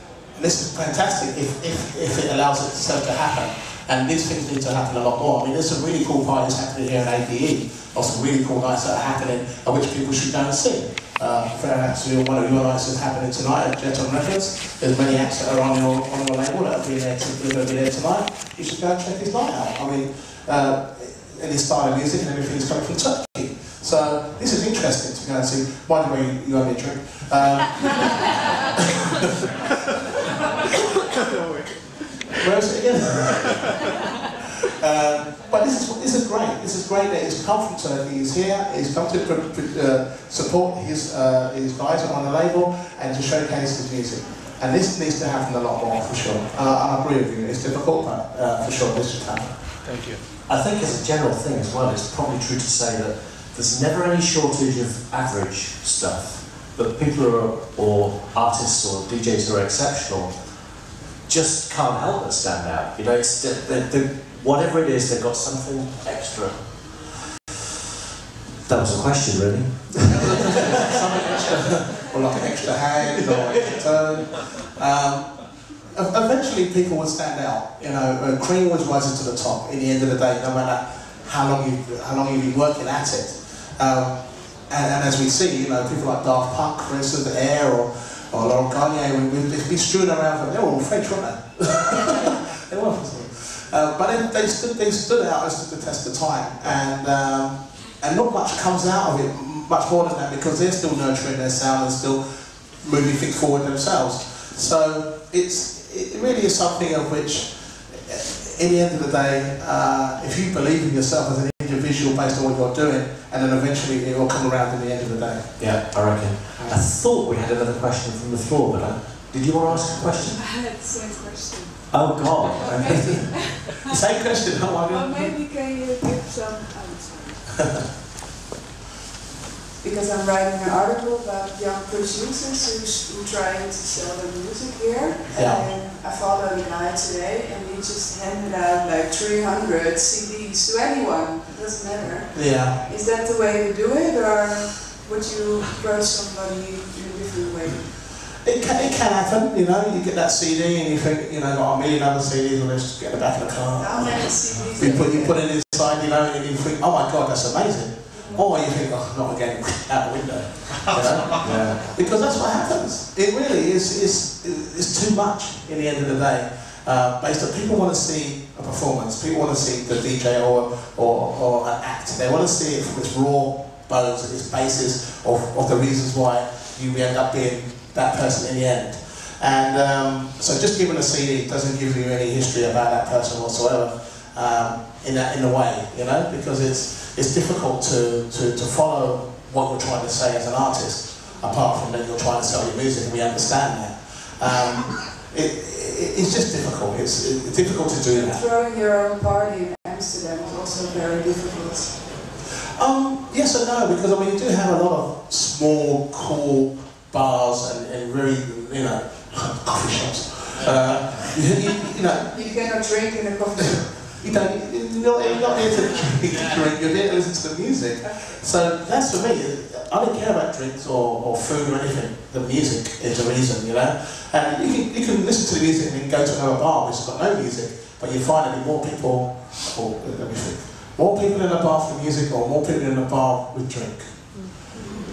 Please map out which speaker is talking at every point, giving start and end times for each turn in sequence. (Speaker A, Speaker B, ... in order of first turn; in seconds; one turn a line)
Speaker A: 0.3-29.0
Speaker A: 32.4-33.8
Speaker A: 34.7-49.7
Speaker B: 50.5-60.6
Speaker B: 61.2-67.1
Speaker B: 68.7-71.9
Speaker A: 70.1-115.8
Speaker B: 115.6-120.4
Speaker A: 119.7-120.1
Speaker C: 120.3-123.8
Speaker B: 121.9-123.4
Speaker A: 122.9-125.1
Speaker C: 124.9-127.6
Speaker C: 129.8-148.0
Speaker A: 135.3-135.7
Speaker A: 142.3-142.8
Speaker A: 148.4-198.4
Speaker C: 153.8-155.4
Speaker C: 158.1-158.4
Speaker B: 160.9-161.8
Speaker C: 198.1-202.0
Speaker A: 202.7-212.6
Speaker C: 212.3-214.1
Speaker A: 213.8-234.3